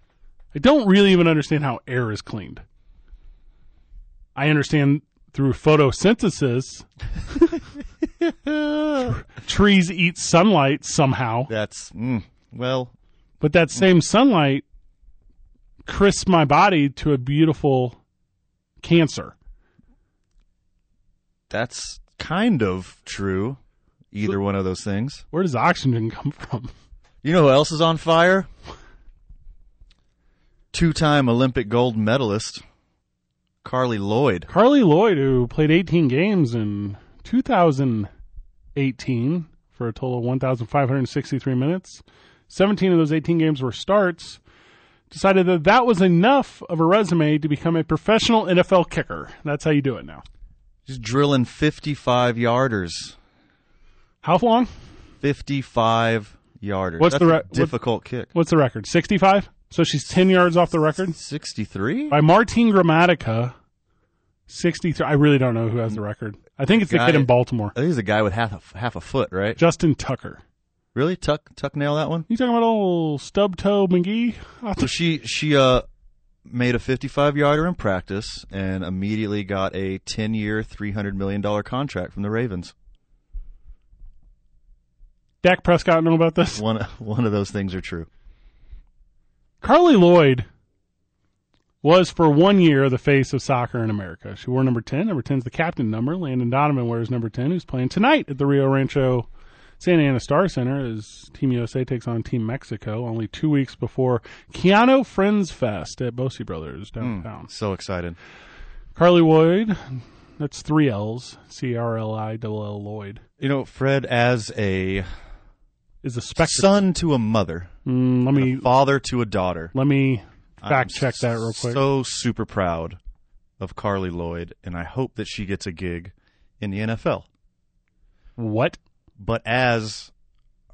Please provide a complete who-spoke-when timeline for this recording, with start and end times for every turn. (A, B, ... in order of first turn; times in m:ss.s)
0:00.5-0:02.6 A
0:04.4-0:06.9 A
0:08.0-0:09.2 B
0:09.4-0:11.5 A
0:11.5-0:12.9 B
0:13.4-0:14.6 A
0:15.8-0:18.0 A
0:18.8-0:19.3 A
0:21.5-0:23.6 B
0:24.1-0:25.2 B
0:25.3-0:26.7 A
0:27.2-0:28.5 B
0:30.7-0:32.6 B
0:33.6-0:34.5 B
0:34.5-0:38.1 A
0:38.7-0:44.4 A
0:45.1-0:50.2 A
0:50.8-0:53.2 B
0:54.2-0:54.7 A
0:55.2-0:58.3 B
0:57.0-0:57.7 A
0:58.3-1:01.2 A
1:01.1-1:02.2 B
1:02.1-1:03.5 A
1:04.5-1:07.7 A
1:06.7-1:09.6 B
1:09.6-1:10.4 A
1:10.9-1:12.3 B
1:12.3-1:14.9 A
1:14.8-1:15.8 B
1:16.4-1:22.7 B
1:25.4-1:26.6 A
1:26.5-1:28.1 B
1:29.6-1:30.4 A
1:31.8-1:39.3 A
1:39.8-1:47.5 A
1:47.0-1:48.2 B
1:49.0-1:53.2 A
1:53.4-1:55.1 B
1:56.0-1:56.8 A
1:56.4-1:57.7 B
1:57.8-1:58.7 A
1:58.3-1:59.7 B
1:59.7-2:01.8 A
2:00.6-2:03.0 B
2:03.6-2:07.2 B
2:08.4-2:08.8 A
2:09.2-2:10.1 B